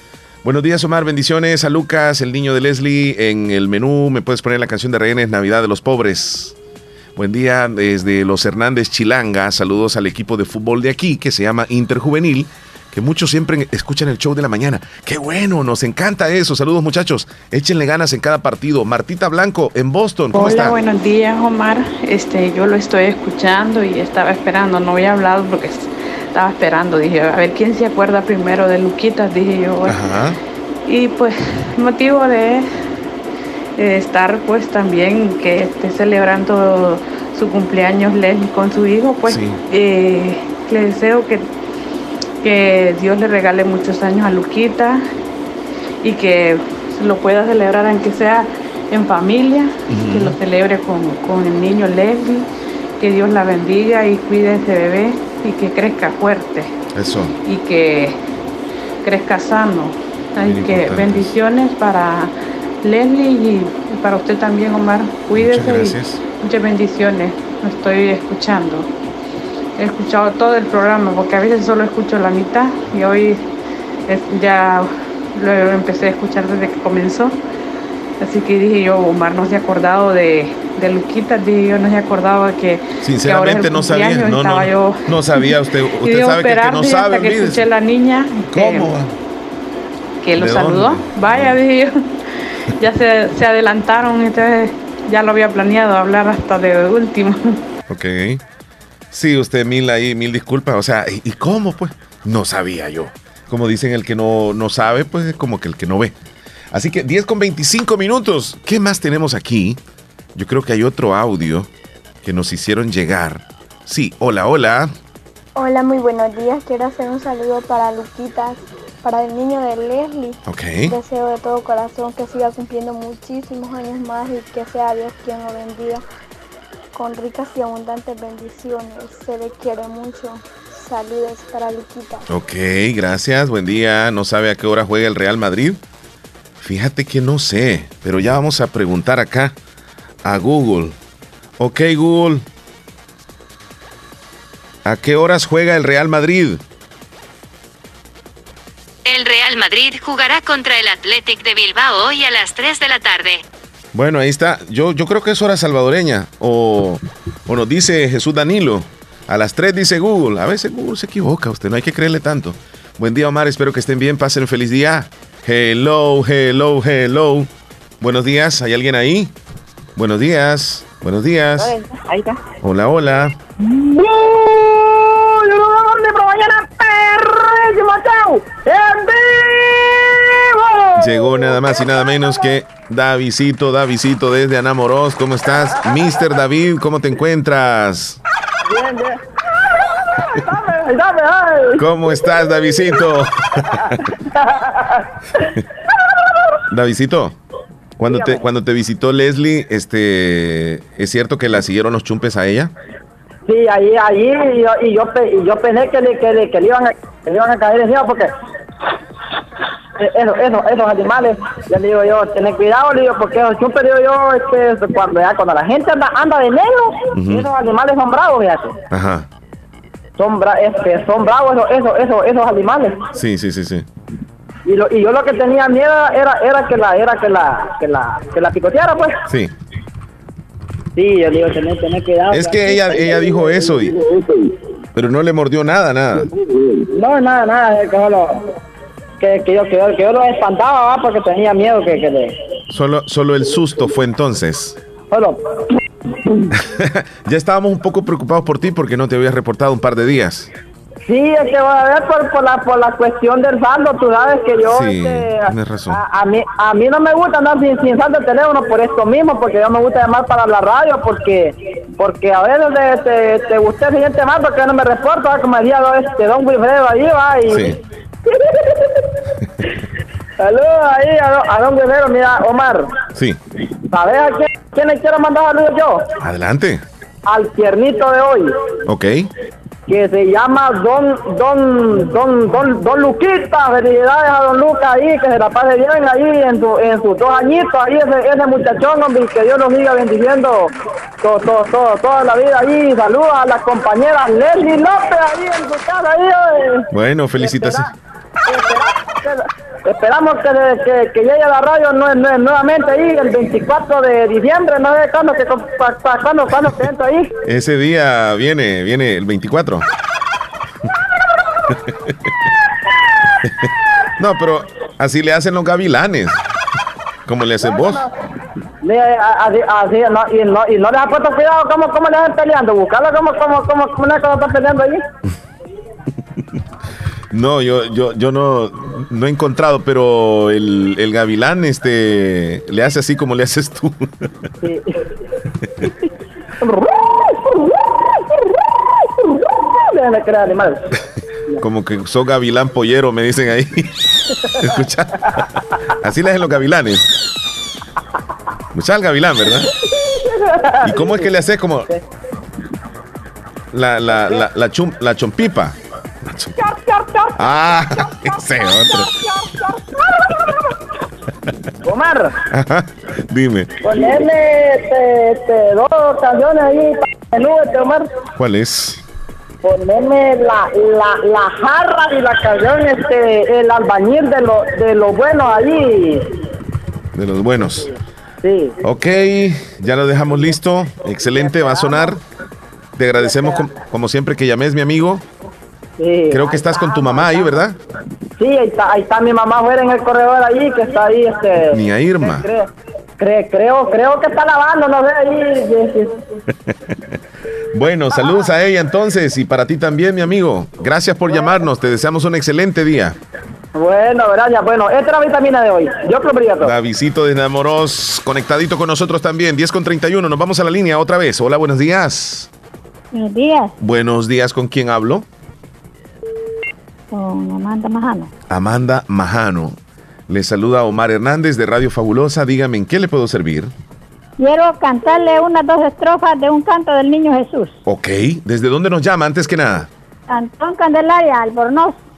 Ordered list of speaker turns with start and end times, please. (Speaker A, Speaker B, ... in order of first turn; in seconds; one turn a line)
Speaker A: 0.4-6.5
Speaker A: 7.2-20.8
Speaker B: 20.3-30.0
Speaker A: 29.9-30.4
Speaker B: 30.9-32.7
Speaker B: 33.8-41.5
Speaker A: 39.3-39.6
Speaker B: 42.4-45.0
Speaker B: 46.0-52.5
Speaker A: 49.9-50.4
Speaker B: 53.0-56.7
Speaker A: 56.9-57.4
Speaker B: 57.4-58.2
Speaker B: 59.0-68.9
Speaker A: 60.5-61.3
Speaker A: 65.3-66.2
Speaker B: 69.8-73.4
Speaker B: 74.1-77.4
Speaker B: 78.2-88.9
Speaker A: 83.0-87.7
Speaker A: 88.5-89.1
Speaker B: 90.2-91.9
Speaker A: 90.4-91.6
Speaker B: 92.8-97.6
Speaker A: 97.9-98.4
Speaker A: 99.1-106.1
Speaker A: 106.7-109.8
Speaker A: 110.3-111.7
Speaker A: 112.2-114.9
Speaker C: 115.5-126.0
Speaker A: 120.4-120.9
Speaker C: 126.9-132.2
Speaker A: 132.3-135.8
Speaker A: 136.6-139.5
Speaker A: 140.2-140.9
Speaker A: 141.6-142.4
Speaker A: 144.8-146.6
Speaker D: 149.1-153.4
Speaker A: 153.9-167.5
Speaker A: 168.0-169.3
Speaker A: 169.9-171.7
Speaker E: 171.6-172.4
Speaker A: 172.6-173.3
Speaker E: 173.7-181.6
Speaker A: 181.0-188.2
Speaker E: 188.6-191.8
Speaker A: 191.8-193.9
Speaker E: 193.7-195.0
Speaker A: 196.7-197.4
Speaker A: 198.0-202.7
Speaker E: 198.1-198.4
Speaker E: 203.4-208.3
Speaker E: 210.0-218.7
Speaker A: 217.1-217.5
Speaker A: 218.9-219.3
Speaker E: 220.2-223.0
Speaker A: 223.2-223.8
Speaker E: 224.7-229.2
Speaker E: 230.9-233.8
Speaker A: 232.3-233.9
Speaker A: 234.9-236.3
Speaker E: 236.8-238.4
Speaker E: 239.2-242.3
Speaker A: 242.7-244.8
Speaker E: 245.1-245.6
Speaker A: 246.5-250.5
Speaker E: 251.1-267.7
Speaker A: 254.6-256.0
Speaker A: 267.5-267.8
Speaker E: 268.4-268.7
Speaker E: 270.4-272.9
Speaker E: 273.8-276.0
Speaker A: 276.2-276.8
Speaker E: 277.2-278.5
Speaker A: 278.9-279.3
Speaker E: 279.9-290.7
Speaker E: 291.2-296.9
Speaker A: 296.9-297.9
Speaker E: 297.4-297.9
Speaker E: 298.4-307.3
Speaker A: 307.4-309.8
Speaker A: 314.2-316.4
Speaker A: 317.2-318.0
Speaker E: 317.6-318.1
Speaker E: 318.8-325.0
Speaker A: 327.3-334.2
Speaker E: 334.6-334.9
Speaker E: 336.6-340.8
Speaker A: 341.6-343.9
Speaker A: 344.6-345.4
Speaker A: 346.0-347.0
Speaker A: 348.7-349.7
Speaker E: 349.8-351.3
Speaker A: 350.8-351.9
Speaker A: 353.7-356.6
Speaker E: 356.8-357.2
Speaker A: 357.4-359.1
Speaker E: 360.0-360.4
Speaker E: 361.8-362.3
Speaker A: 362.5-363.7
Speaker E: 363.8-368.1
Speaker A: 368.4-369.0
Speaker E: 369.6-376.4
Speaker A: 377.1-377.9
Speaker E: 378.4-378.7
Speaker A: 378.8-382.2
Speaker E: 381.2-382.1
Speaker A: 383.0-385.2
Speaker E: 383.2-383.6
Speaker E: 386.0-387.6
Speaker A: 386.3-387.8
Speaker E: 388.4-392.7
Speaker A: 391.7-392.5
Speaker E: 393.2-396.2
Speaker A: 397.7-403.1
Speaker E: 403.7-406.7
Speaker A: 406.6-412.5
Speaker F: 413.1-413.7
Speaker A: 413.8-415.3
Speaker F: 417.1-418.3
Speaker A: 418.5-419.8
Speaker A: 420.3-423.7
Speaker F: 424.4-427.8
Speaker A: 427.9-429.9
Speaker F: 430.3-431.9